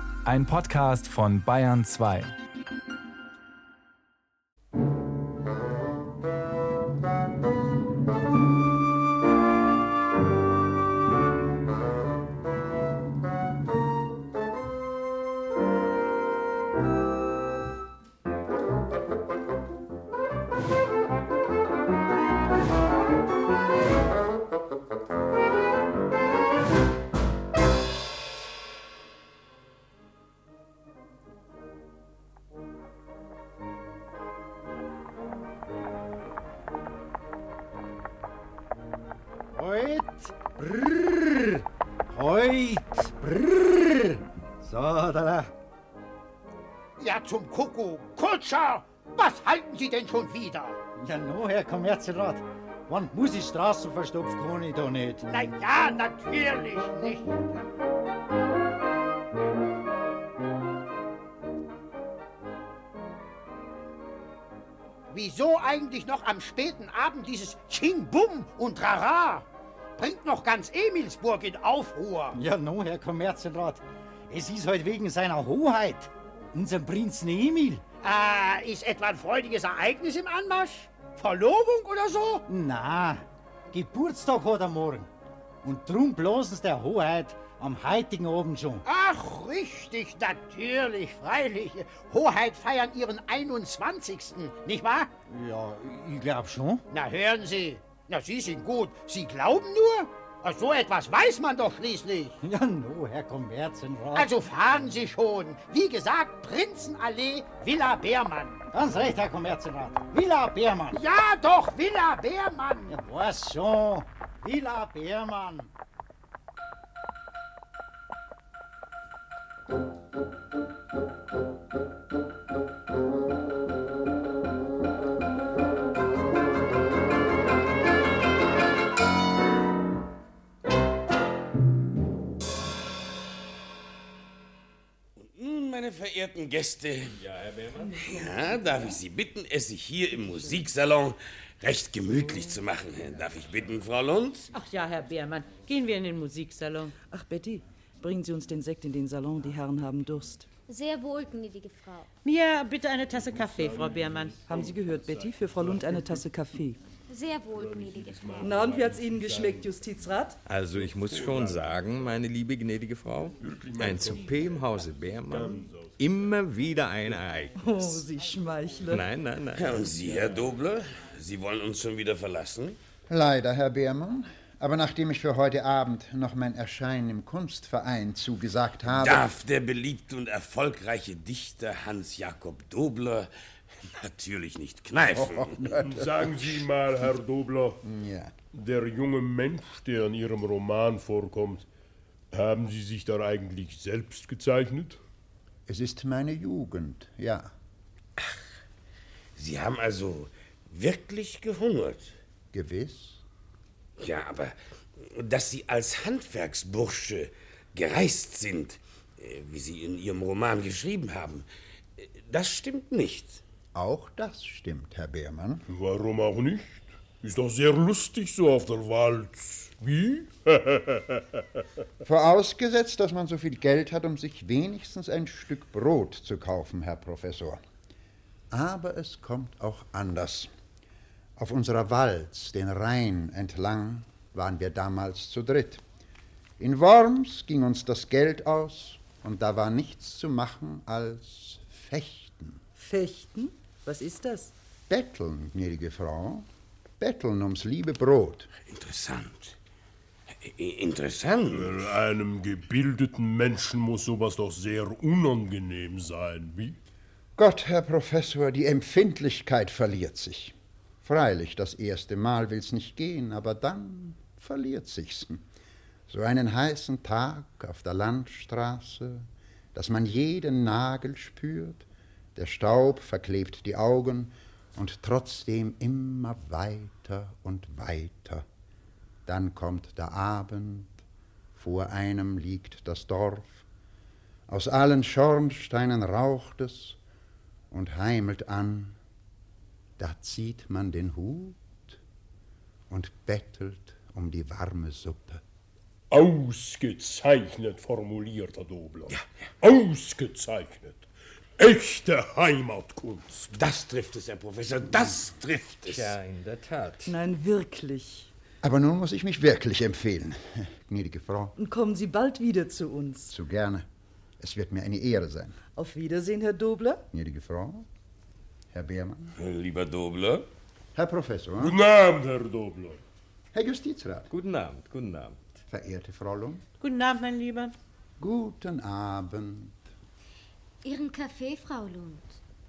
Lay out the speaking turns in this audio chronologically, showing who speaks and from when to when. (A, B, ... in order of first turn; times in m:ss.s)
0:00.2-0:02.3 A
0:39.5-0:45.5 B
0:47.0-0:50.8 C
0:51.0-0:55.2 B
0:55.2-0:57.6 C
1:05.1-1:09.4 C
1:10.0-1:12.4 C
1:12.3-1:17.8 B
1:18.0-1:22.4 C
1:22.5-1:25.1 B
1:25.6-1:28.8 B
1:28.8-1:35.1 C
1:35.2-1:36.8 B
1:36.9-1:42.4 C
1:42.4-1:44.3 B
1:44.1-1:48.7 C
1:48.7-1:51.0 B
1:50.9-1:53.0 C
1:52.9-1:55.7 B
2:15.3-2:17.1 D
2:17.2-2:18.0 E
2:18.0-2:24.5 D
2:24.5-2:26.9 F
2:27.1-2:30.5 G
2:30.7-2:32.1 H
2:32.2-2:34.4 F
2:33.2-2:34.6 I
2:34.5-2:36.8 G
2:37.1-2:38.3 H
2:37.5-2:39.7 I
2:38.4-2:40.4 G
2:40.4-2:47.6 E
2:41.1-2:41.6 I
2:43.4-2:44.7 I
2:45.3-2:46.0 I
2:47.6-2:49.1 G
2:48.9-2:50.2 E
2:49.5-2:52.8 D
2:53.1-2:59.3 J
2:58.9-3:03.3 D
3:03.9-3:05.6 D
3:05.2-3:06.4 J
3:05.8-3:07.8 I
3:07.8-3:08.3 J
3:08.5-3:11.6 I
3:12.3-3:15.0 I
3:15.7-3:17.5 J
3:19.4-3:22.1 D
3:22.5-3:23.2 J
3:24.0-3:31.4 D
3:32.0-3:33.4 D
3:33.7-3:35.6 J
3:35.7-3:41.4 I
3:42.0-3:47.6 J
3:48.5-3:50.5 J
3:51.4-3:55.8 J
3:56.6-4:02.6 J
4:02.8-4:04.5 G
4:04.9-4:06.4 J
4:07.0-4:08.5 J
4:08.6-4:09.5 D
4:10.4-4:11.8 D
4:11.5-4:16.8 I
4:17.4-4:25.4 J
4:26.1-4:38.4 J
4:39.2-4:41.0 J
4:41.5-4:43.6 J
4:44.5-4:47.0 J
4:47.7-4:49.0 J
4:50.0-4:52.0 J
4:52.9-4:55.4 J
4:56.1-5:01.0 I
5:01.6-5:03.6 I
5:03.5-5:06.1 D
5:05.8-5:07.1 E
5:07.0-5:08.3 G
5:08.6-5:11.5 J
5:11.6-5:13.3 G
5:13.3-5:13.8 J
5:14.4-5:15.6 J
5:15.7-5:17.0 G
5:17.1-5:17.8 J
5:18.7-5:19.3 J
5:19.4-5:20.4 D
5:20.9-5:21.8 J
5:21.6-5:23.0 I
5:23.5-5:24.3 J
5:24.3-5:25.5 E
5:25.7-5:26.6 J
5:26.8-5:27.7 F
5:28.2-5:29.8 J
5:30.8-5:32.4 H